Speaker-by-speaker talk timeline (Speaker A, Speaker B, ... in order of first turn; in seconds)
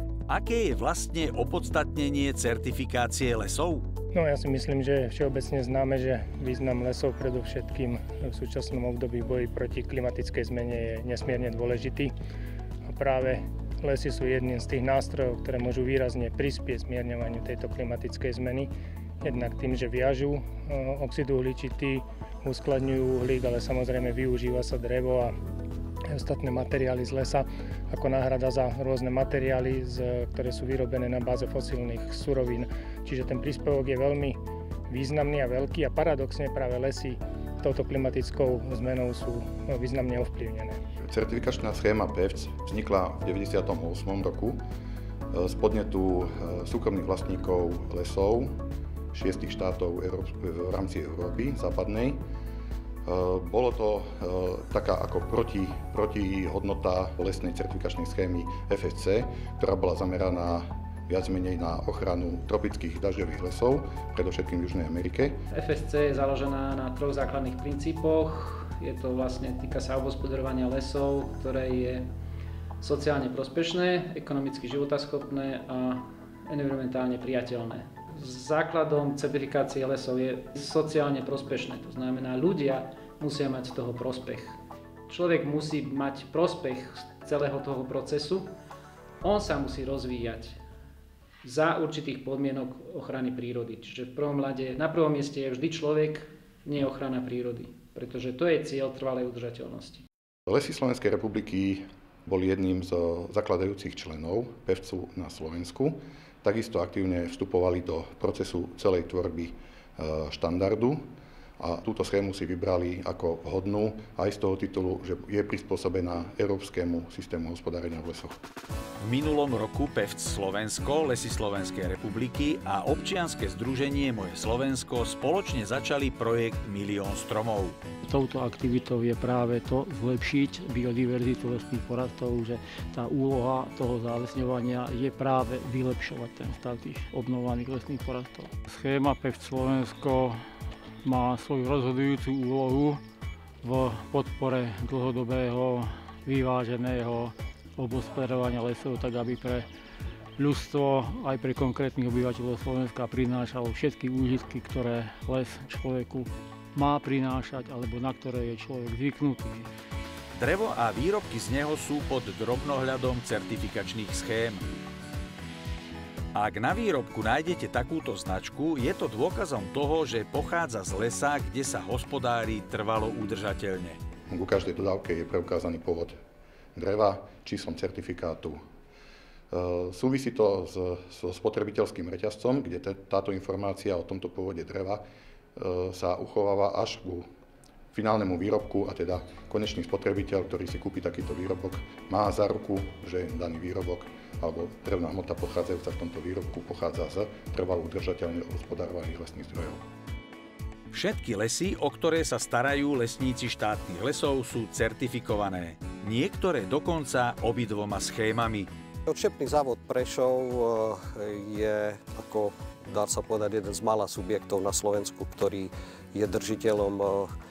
Speaker A: 0.3-3.9, 119.0-127.8, 160.3-164.7, 166.3-174.0, 200.9-208.7
Speaker B: 4.1-12.1, 12.9-18.7, 19.2-25.3, 26.1-34.4, 34.9-40.8
Speaker C: 41.1-44.6, 45.3-48.5, 49.1-52.2, 53.1-65.4, 100.5-111.0, 111.6-118.4, 174.3-176.2, 176.8-178.6, 179.5-185.0, 185.6-187.2, 187.9-199.8
Speaker D: 65.5-72.1, 72.8-84.6, 85.1-88.5, 89.2-90.6, 91.4-100.0
Speaker E: 128.0-140.4, 141.0-143.0, 143.6-149.7, 150.4-159.7
Speaker F: 209.1-217.3